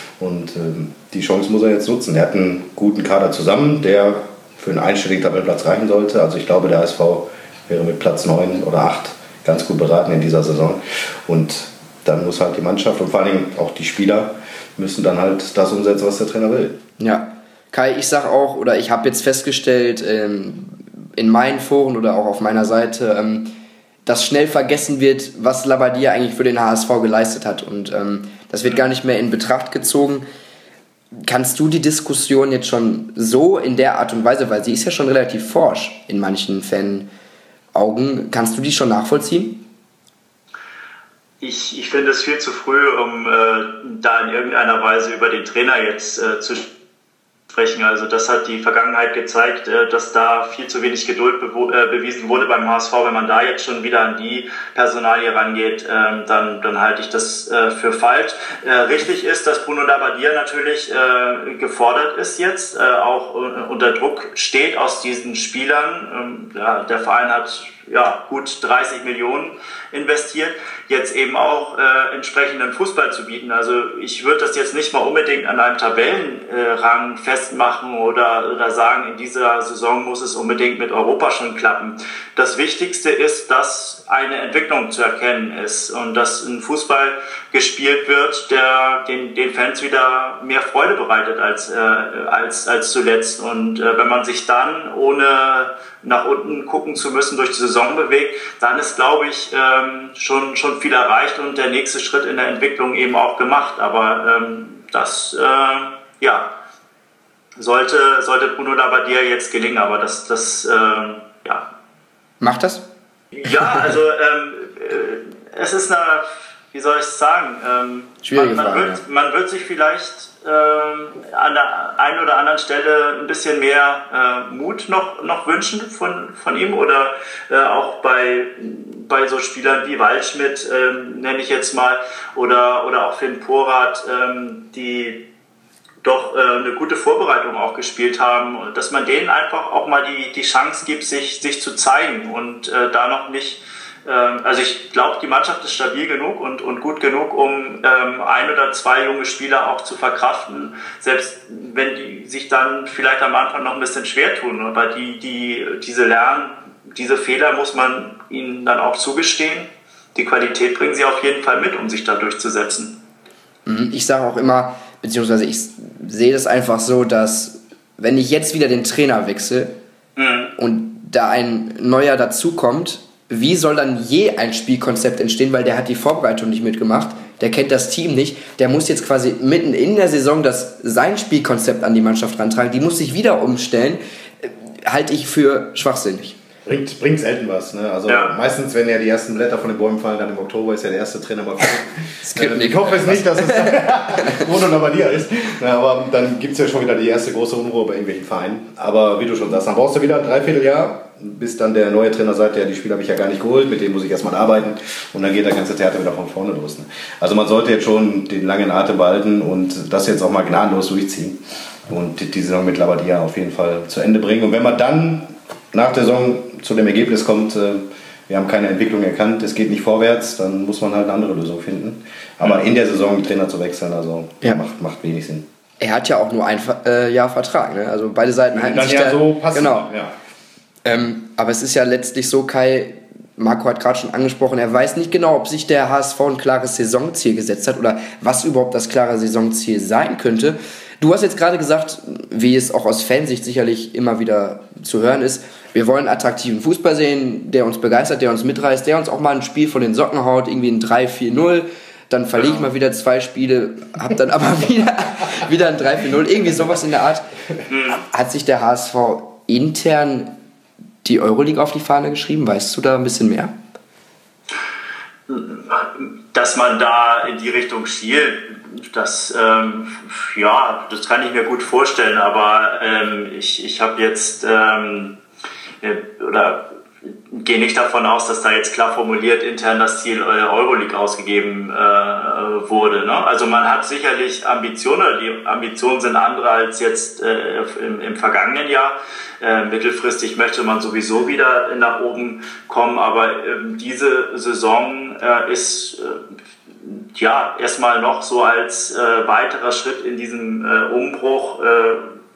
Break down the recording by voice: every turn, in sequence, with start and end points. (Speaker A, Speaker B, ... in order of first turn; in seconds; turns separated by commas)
Speaker A: 0.2-16.8, Speaker B: 17.0-23.5, Speaker B: 24.1-30.2, Speaker B: 31.1-37.1, Speaker B: 37.8-39.6, Speaker C: 41.4-46.7, Speaker C: 47.5-106.5, Speaker C: 107.6-111.7, Speaker B: 112.4-112.8, Speaker C: 113.3-135.2, Speaker B: 113.5-113.9, Speaker B: 118.2-119.0, Speaker C: 136.0-162.9, Speaker B: 163.7-169.7, Speaker C: 170.2-170.5, Speaker B: 170.6-186.4, Speaker A: 186.7-225.5, Speaker B: 192.2-194.4, Speaker B: 225.8-229.9, Speaker A: 228.5-230.1, Speaker B: 230.8-257.2, Speaker C: 257.7-258.0, Speaker B: 258.1-260.3, Speaker B: 261.0-263.5, Speaker C: 265.3-275.2, Speaker C: 275.8-296.2, Speaker C: 296.8-302.1